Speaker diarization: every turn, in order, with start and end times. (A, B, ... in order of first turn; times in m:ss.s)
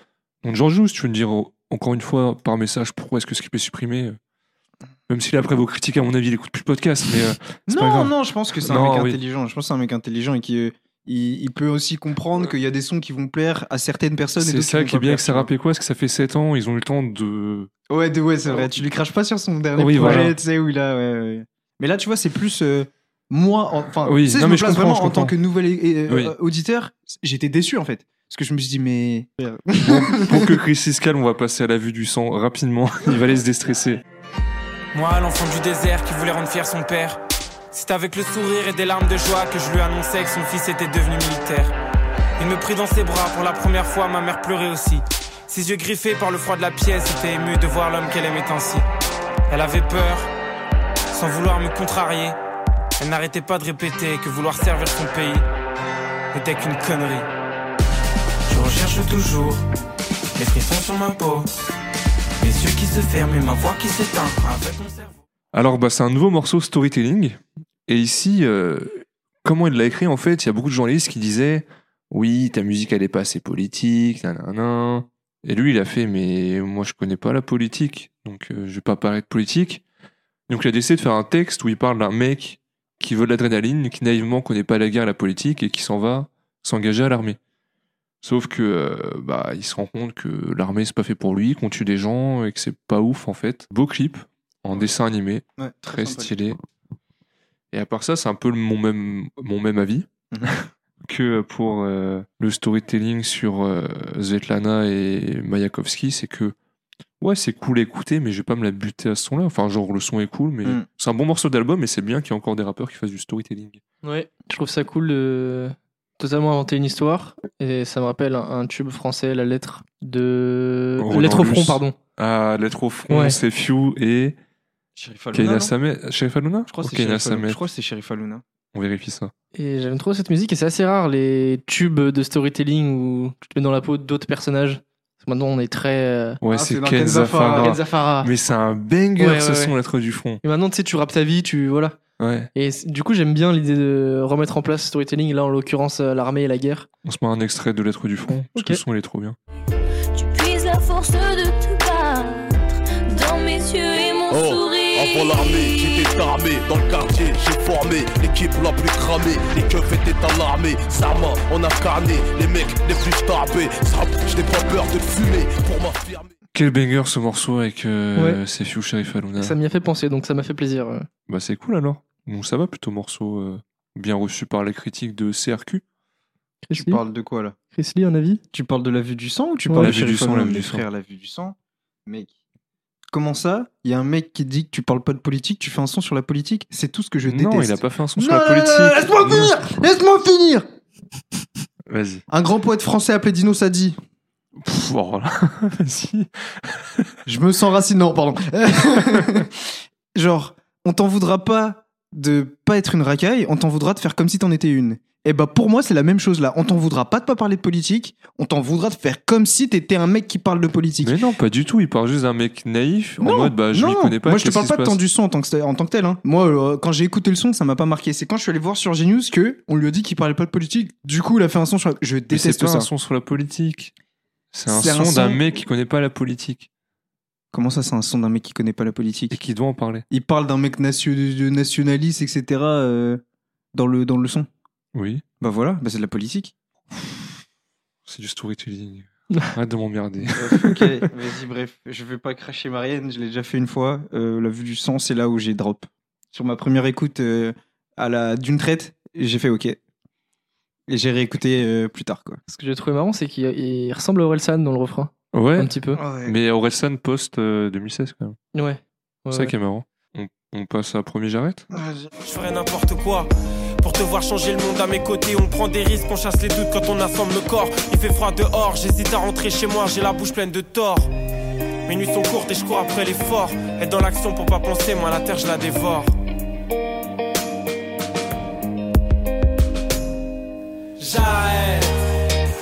0:00.4-0:04.2 A
0:05.1-0:09.2 A
0:07.7-0:15.5 B
0:14.4-0:17.7 A
0:17.9-0:30.6 B
0:19.8-0:20.4 A
0:24.0-0:25.3 A
0:26.1-0:26.3 A
0:29.8-0:34.0 A
0:34.9-0:37.2 C
0:37.7-0:41.7 C
0:42.4-0:48.8 C
0:49.5-0:50.3 C
0:51.1-0:52.4 C
0:53.0-0:55.4 C
0:56.3-0:57.3 C
0:58.5-0:59.6 C
1:00.4-1:01.5 C
1:02.4-1:05.2 C
1:05.5-1:19.8 A
1:20.5-1:27.4 A
1:28.2-1:36.6 A
1:35.6-1:36.3 B
1:37.7-1:46.5 A
1:40.3-1:40.6 B
1:47.2-1:53.8 A
1:54.0-2:02.0 D
2:01.0-2:04.4 A
2:03.1-2:03.4 D
2:05.0-2:05.7 B
2:05.3-2:07.6 A
2:06.7-2:08.4 B
2:08.7-2:09.3 A
2:09.5-2:16.4 D
2:16.4-2:20.4 A
2:16.5-2:17.8 B
2:17.4-2:18.3 D
2:19.2-2:19.7 D
2:20.4-2:22.0 D
2:22.2-2:22.5 A
2:22.5-2:26.9 D
2:27.0-2:29.4 A
2:28.4-2:28.8 D
2:30.1-2:36.1 E
2:34.3-2:46.3 F
2:46.5-2:49.6 A
2:49.4-2:51.1 D
2:51.3-2:55.8 A
2:56.6-2:57.0 D
2:56.7-2:57.6 B
2:57.7-2:58.4 D
2:58.5-3:02.3 B
2:59.7-3:00.0 D
2:59.8-3:00.8 A
3:03.1-3:10.6 B
3:07.2-3:09.6 A
3:11.9-3:12.2 A
3:12.3-3:14.0 B
3:14.6-3:17.0 A
3:17.2-3:31.2 B
3:31.0-3:35.0 A
3:33.2-3:42.9 B
3:42.3-3:43.9 A
3:44.5-3:46.7 A
3:44.7-3:45.4 B
3:47.5-3:49.4 B
3:49.3-3:50.0 A
3:50.1-3:53.2 B
3:53.7-3:54.5 B
3:54.9-3:55.2 A
3:55.4-3:56.5 B
3:56.9-3:57.3 A
3:58.0-4:01.0 A
4:00.3-4:09.8 B
4:10.9-4:12.4 B
4:12.5-4:16.0 D
4:15.3-4:18.4 A
4:15.9-4:16.4 B
4:18.5-4:19.5 D
4:19.3-4:21.6 A
4:21.7-4:22.1 B
4:22.2-4:23.3 C
4:23.8-4:31.1 C
4:31.8-4:36.1 C
4:41.0-4:41.9 C